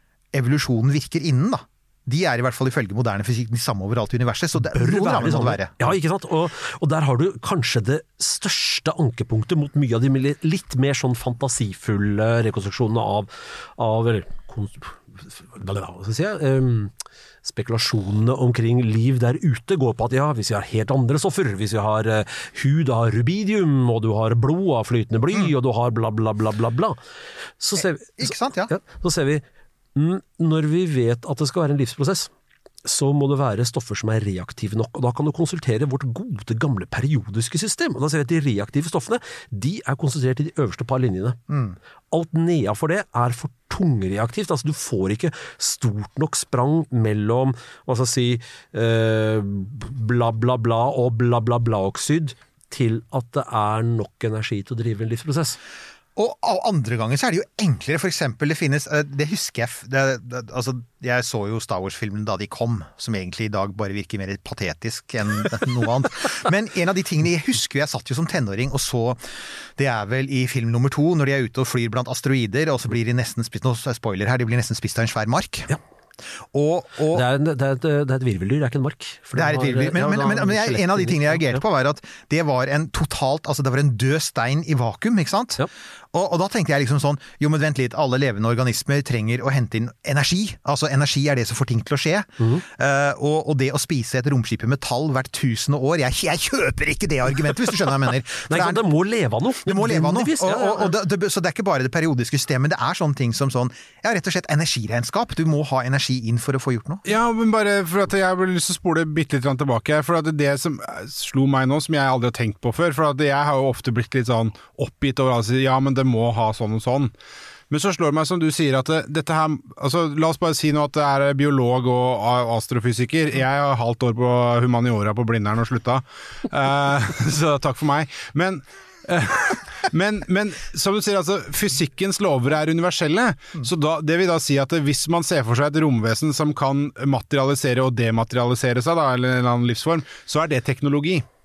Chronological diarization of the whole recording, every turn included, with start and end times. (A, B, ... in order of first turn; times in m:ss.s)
0:00.3-0:06.0 A
0:04.7-0:16.9 B
0:17.4-0:27.0 B
0:27.6-0:29.4 B
0:27.8-0:28.8 A
0:30.0-0:32.3 B
0:32.8-0:41.4 B
0:41.5-0:41.8 A
0:42.1-0:55.6 B
0:56.2-1:15.7 A
1:16.4-1:17.3 A
1:17.1-1:21.6 B
1:19.3-1:38.9 A
1:38.5-1:41.0 B
1:39.6-1:47.0 A
1:47.1-1:57.1 C
1:57.7-2:21.3 C